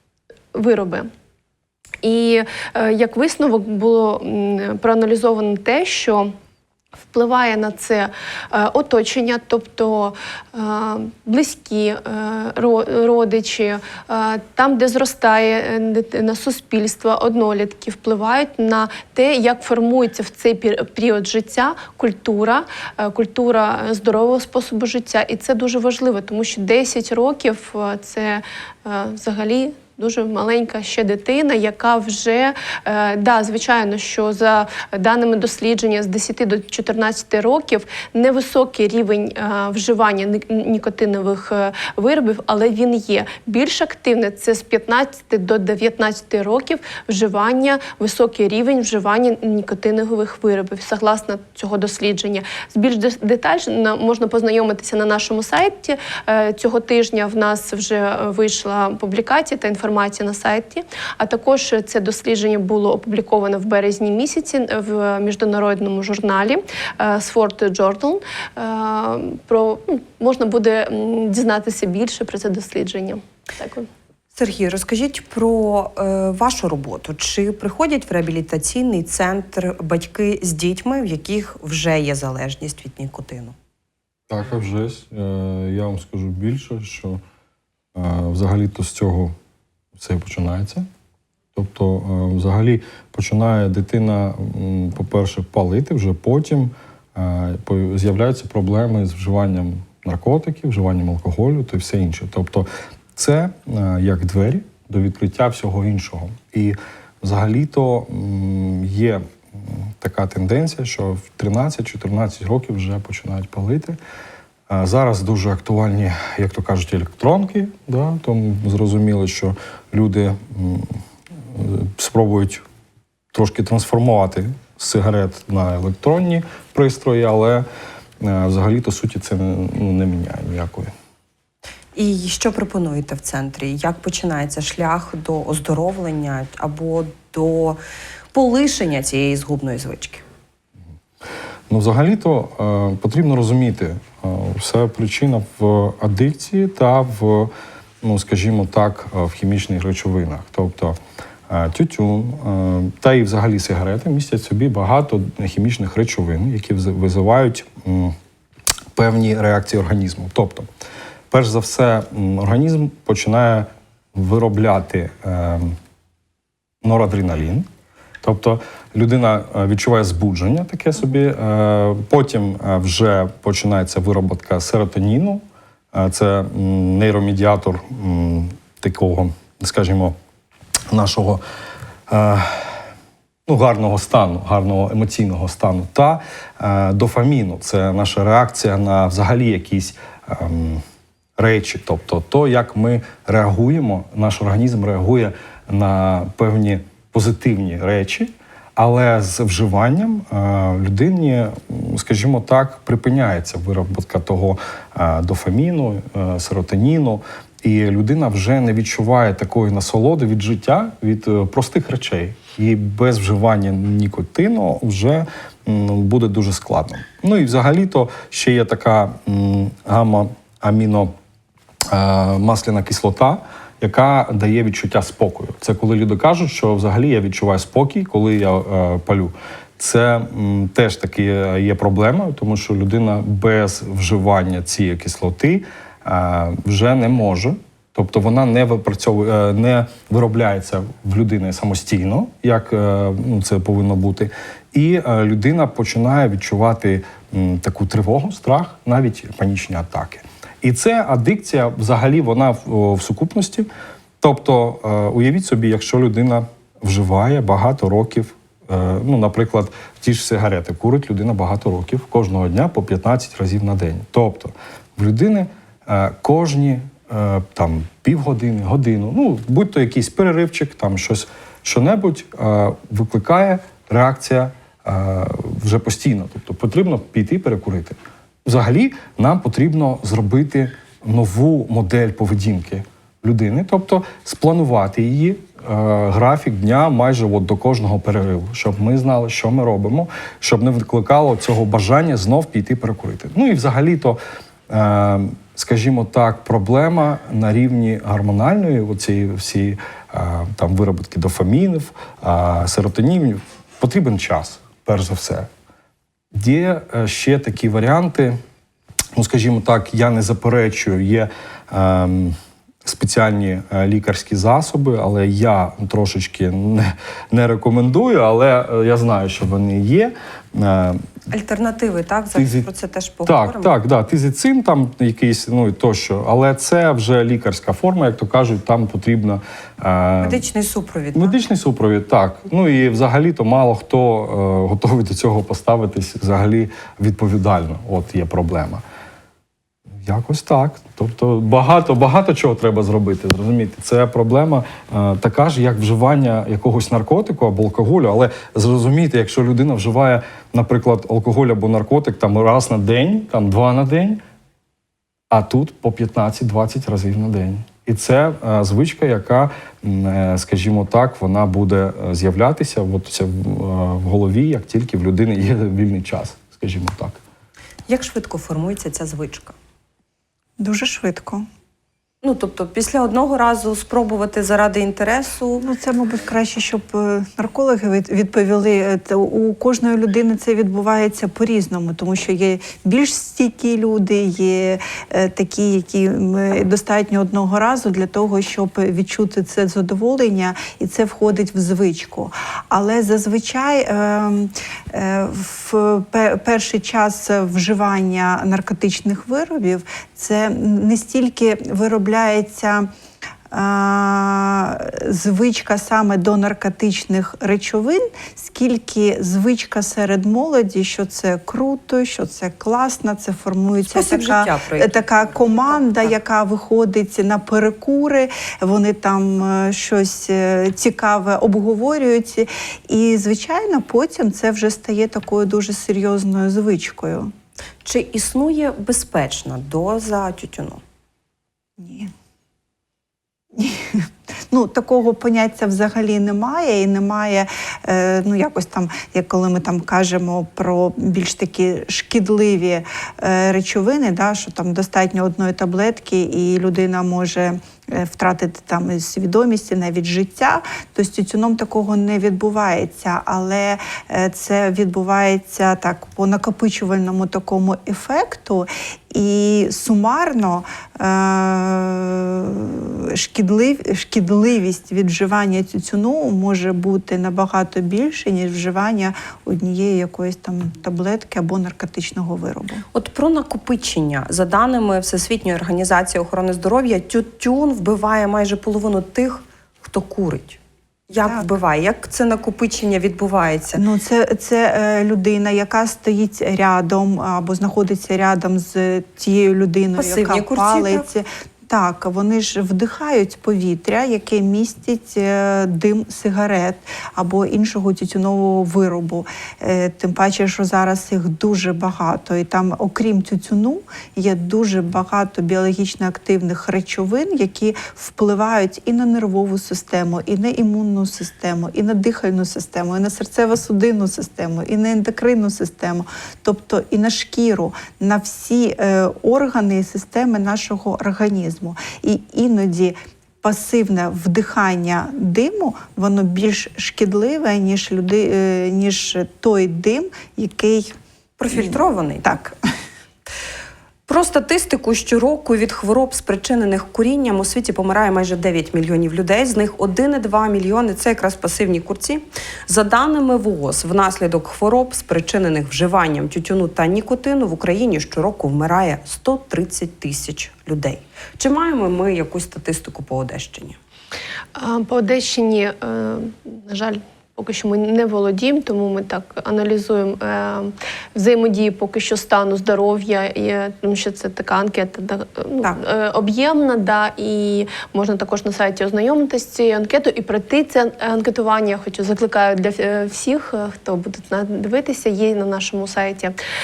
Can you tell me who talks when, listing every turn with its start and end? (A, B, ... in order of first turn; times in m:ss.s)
0:00.5-0:01.1 A
0:02.0-0:06.3 A
0:07.1-1:13.9 A
1:14.3-1:23.6 B
1:24.3-1:27.2 C
1:27.9-1:29.3 C
1:30.0-1:30.8 C
1:31.6-1:54.0 C
1:54.7-2:01.0 C
2:01.5-2:02.6 C
2:03.3-2:07.6 C
2:08.2-2:10.9 C
2:11.9-2:17.8 B
2:18.3-2:20.2 B
2:21.7-2:31.0 C
2:31.5-2:38.1 C
2:38.9-2:40.7 C
2:41.3-2:45.8 C
2:46.8-2:47.6 C
2:48.2-3:00.1 C
3:00.9-3:01.4 C
3:02.1-3:02.8 C
3:03.5-3:10.8 C
3:11.4-3:41.1 C
3:41.9-4:13.7 C
4:14.2-5:05.5 C
5:06.3-5:08.4 C
5:09.2-5:21.0 C
5:21.3-5:23.7 B
5:22.4-5:22.7 C
5:23.2-5:30.4 C
5:30.2-5:31.4 B
5:31.2-5:38.8 C
5:40.0-5:54.2 C
5:55.3-6:07.2 C
6:07.9-6:09.6 B
6:10.6-6:11.5 D
6:12.2-6:15.7 B
6:15.6-6:42.9 D
6:43.5-7:07.3 D
6:53.9-6:56.1 B
7:07.8-7:10.8 B
7:11.8-7:12.1 D
7:13.6-7:52.8 D
7:52.9-8:03.8 B
8:03.7-8:51.0 D
8:10.0-8:11.0 B
8:51.4-8:52.4 B
8:51.5-8:52.6 D
8:54.1-9:13.8 B
9:14.6-9:36.4 A